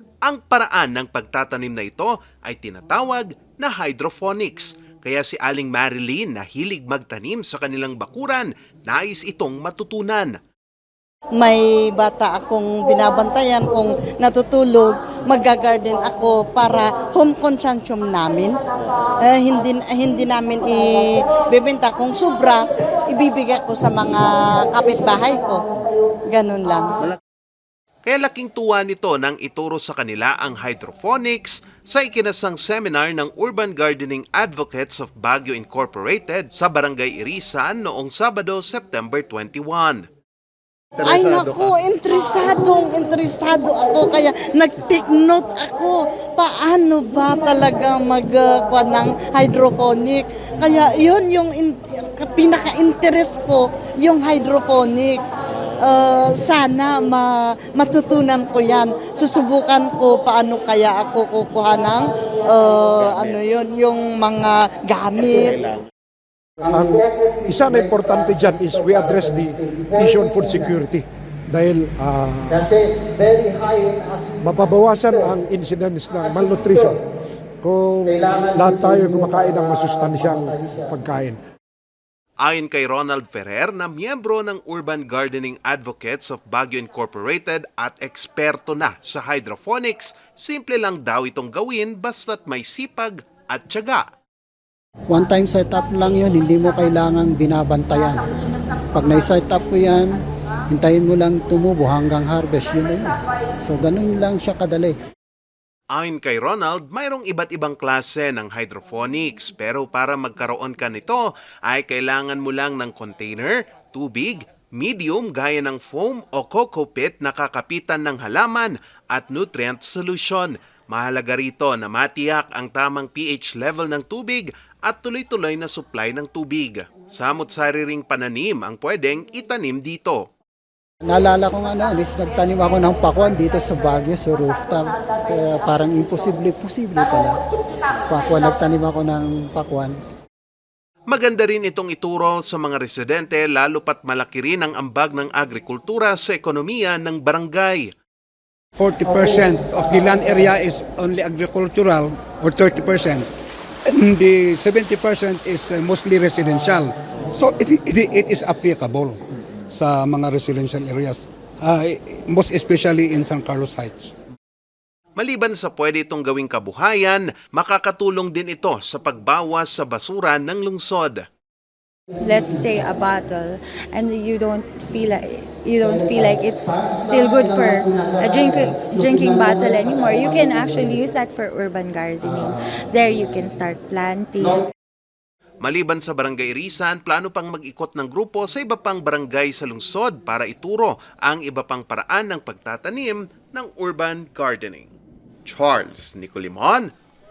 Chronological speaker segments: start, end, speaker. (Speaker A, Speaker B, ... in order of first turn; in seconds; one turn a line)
Speaker A: 0.2-10.4
Speaker B: 11.4-18.6
Speaker B: 19.2-25.7
Speaker B: 26.3-26.9
Speaker A: 28.1-40.0
Speaker A: 41.0-41.7
Speaker B: 41.0-55.2
Speaker B: 55.8-65.7
Speaker C: 66.6-70.8
Speaker D: 66.6-72.7
Speaker C: 72.5-75.3
Speaker D: 74.4-76.9
Speaker C: 76.2-77.0
Speaker D: 77.6-81.4
Speaker C: 78.1-81.0
Speaker A: 82.4-94.0
Speaker C: 95.1-98.3
Speaker C: 98.9-103.1
Speaker C: 103.7-105.0
Speaker A: 105.9-130.2
Speaker C: 131.1-137.4
Speaker C: 138.1-140.0
Speaker A: 141.1-147.9
Speaker E: 148.8-153.3
Speaker E: 153.9-159.2
Speaker E: 159.7-164.1
Speaker A: 165.2-171.2
Speaker F: 172.2-184.7
Speaker C: 176.0-181.0
Speaker C: 182.2-182.5
Speaker A: 185.6-194.9
Speaker A: 195.4-196.9